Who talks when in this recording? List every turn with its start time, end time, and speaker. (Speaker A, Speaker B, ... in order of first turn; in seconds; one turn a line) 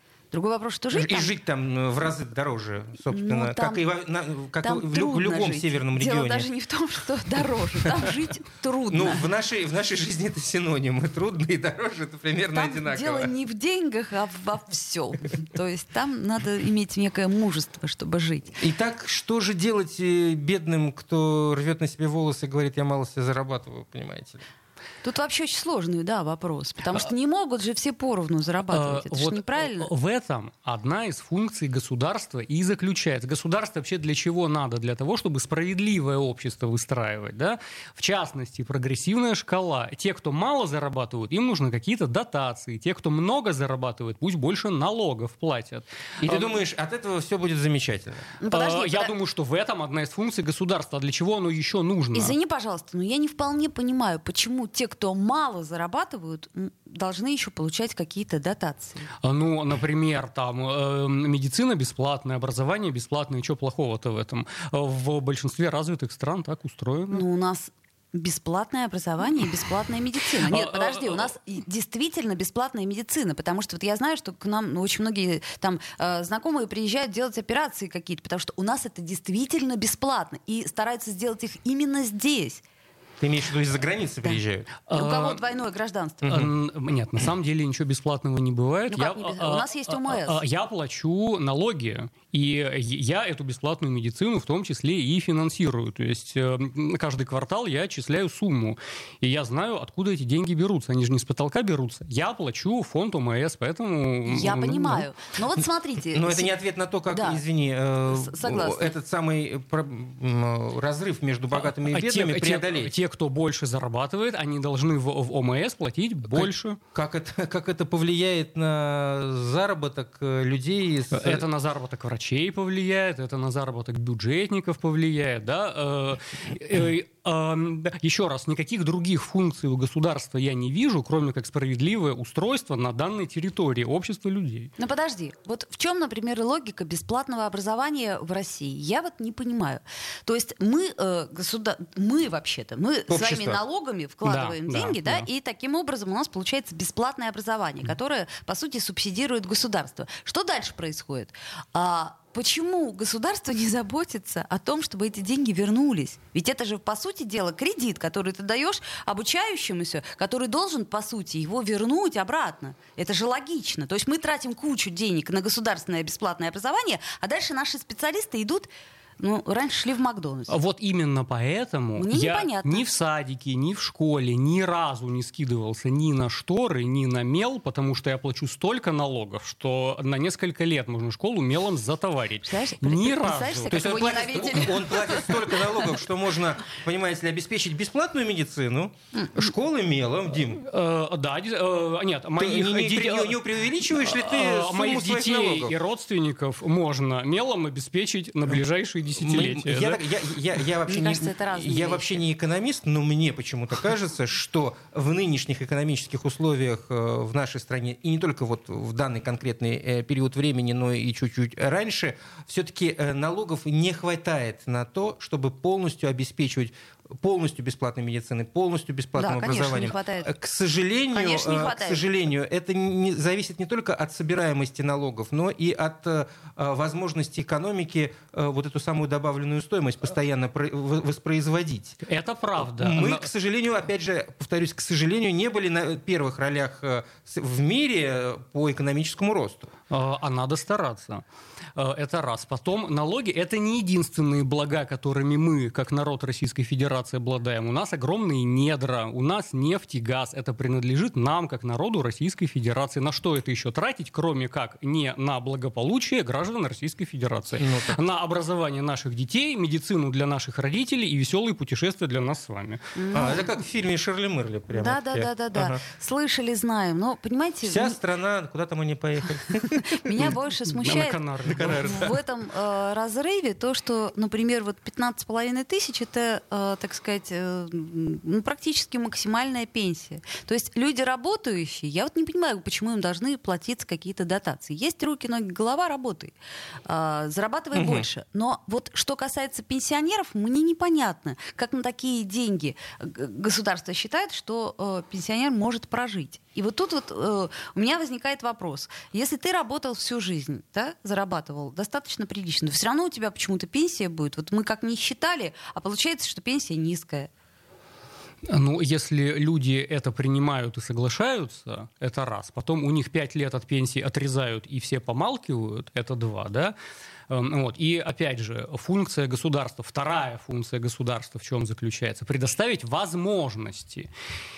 Speaker A: 0.3-1.3
Speaker B: 0.9-6.5
Speaker A: 3.1-3.8
Speaker A: 4.6-9.2
Speaker B: 8.9-13.3
Speaker A: 12.5-18.6
Speaker B: 18.6-24.4
Speaker A: 25.0-29.9
Speaker C: 28.7-46.5
Speaker B: 46.2-48.3
Speaker A: 48.4-49.1
Speaker C: 48.5-52.3
Speaker A: 52.1-59.1
Speaker C: 59.2-67.2
Speaker A: 67.1-82.6
Speaker C: 70.4-71.3
Speaker B: 83.2-84.7
Speaker C: 84.9-85.4
Speaker A: 84.9-86.3
Speaker B: 86.2-86.5
Speaker C: 86.2-105.0
Speaker A: 88.9-90.4
Speaker A: 104.2-106.5
Speaker B: 106.1-112.9
Speaker A: 107.1-107.4
Speaker A: 108.1-108.9
Speaker C: 111.5-116.8
Speaker B: 116.3-121.5
Speaker C: 121.1-134.7
Speaker A: 134.8-170.5
Speaker B: 143.1-143.6
Speaker C: 144.2-145.2
Speaker C: 170.5-184.6
Speaker A: 171.9-172.9
Speaker A: 182.4-185.8
Speaker B: 183.6-190.6
Speaker A: 189.1-189.5
Speaker C: 190.6-200.0
Speaker B: 192.4-195.7
Speaker B: 199.2-232.0
Speaker A: 200.9-202.1
Speaker A: 219.2-220.3
Speaker A: 221.1-222.0
Speaker C: 232.0-233.3
Speaker B: 232.6-239.7
Speaker C: 239.9-241.2
Speaker C: 241.8-262.9
Speaker B: 257.6-258.0
Speaker A: 262.9-263.4
Speaker B: 263.1-265.8
Speaker A: 264.7-267.9
Speaker B: 267.6-270.3
Speaker A: 269.9-286.3
Speaker C: 270.8-272.1
Speaker B: 271.5-272.1
Speaker A: 286.9-307.3
Speaker B: 287.7-288.1
Speaker C: 308.5-316.7
Speaker C: 317.3-324.1